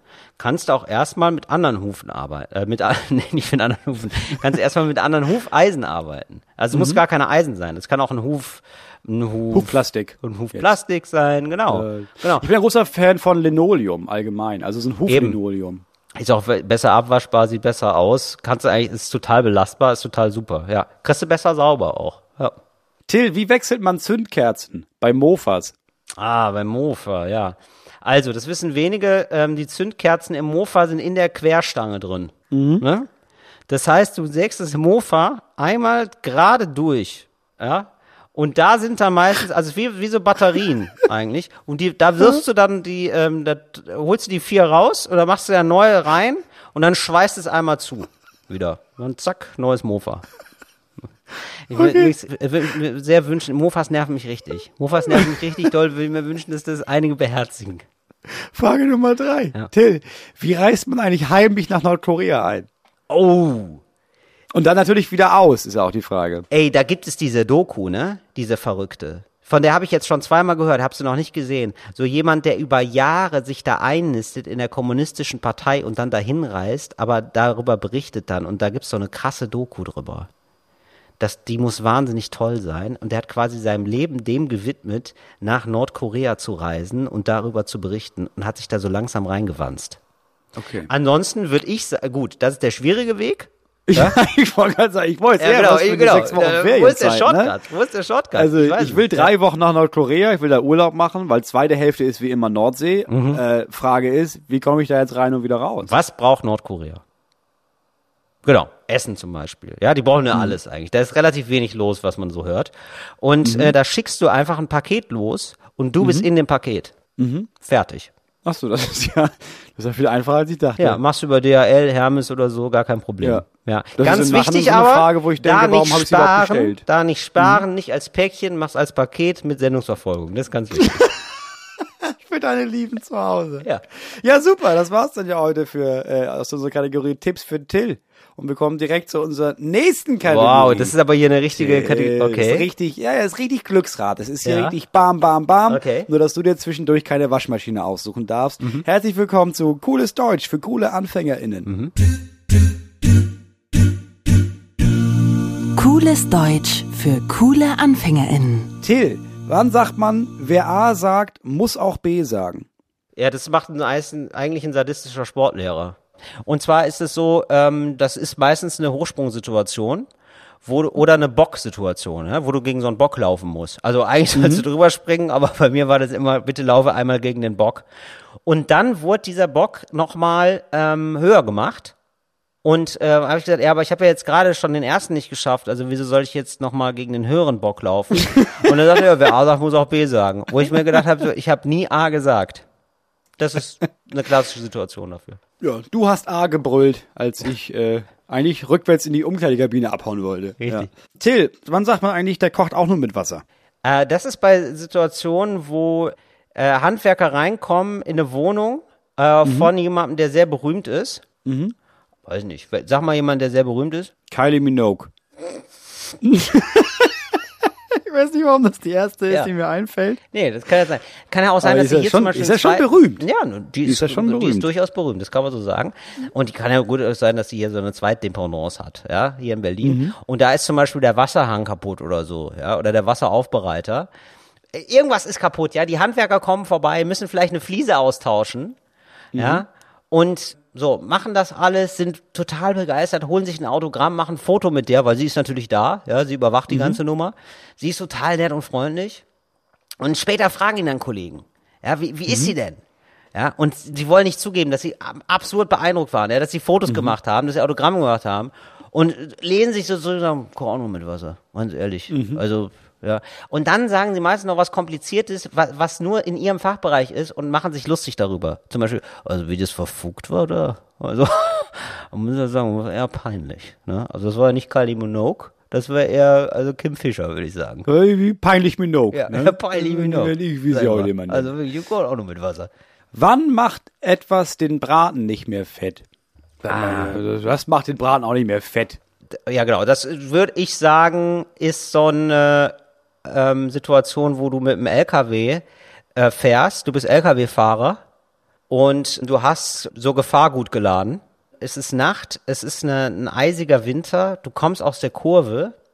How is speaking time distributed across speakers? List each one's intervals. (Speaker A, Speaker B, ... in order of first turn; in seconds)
Speaker A: 0.4-12.5, 15.1-15.4, 16.2-22.6, 26.2-33.1, 33.7-50.3, 51.7-57.9, 63.1-63.8, 66.5-80.3, 81.2-90.0, 90.9-94.2, 95.4-99.3, 103.1-103.4, 105.8-107.0, 108.5-117.0, 117.6-118.1, 120.8-131.1, 140.2-142.7, 144.4-144.8, 145.7-146.1, 151.7-151.9, 163.2-170.1, 170.6-177.9, 178.4-181.9, 182.6-192.7, 193.4-195.4, 200.6-200.9, 203.8-211.2, 212.3-214.1, 220.3-234.1, 234.7-238.8, 239.4-249.2, 250.0-252.8, 253.3-277.9, 279.1-282.7, 286.7-287.2, 289.3-295.6, 296.2-298.0, 298.7-305.8
Speaker B: 6.7-7.0, 9.5-10.7, 11.7-15.8, 23.1-25.7, 32.5-32.8, 51.8-52.1, 58.3-62.7, 64.5-66.5, 90.6-90.9, 93.9-97.5, 98.4-105.9, 113.4-113.8, 116.0-116.3, 117.2-117.5, 118.5-121.0, 124.0-126.8, 127.4-127.6, 132.0-140.9, 141.6-151.7, 158.8-162.7, 174.4-174.7, 195.6-203.4, 209.4-209.7, 211.4-211.7, 214.3-215.1, 216.2-220.2, 221.6-223.2, 223.8-224.7, 229.8-230.2, 239.3-239.7, 246.7-247.0, 252.3-252.5, 256.9-257.1, 262.1-262.4, 277.9-281.5, 283.1-286.0, 286.6-289.0
Speaker C: 155.8-158.7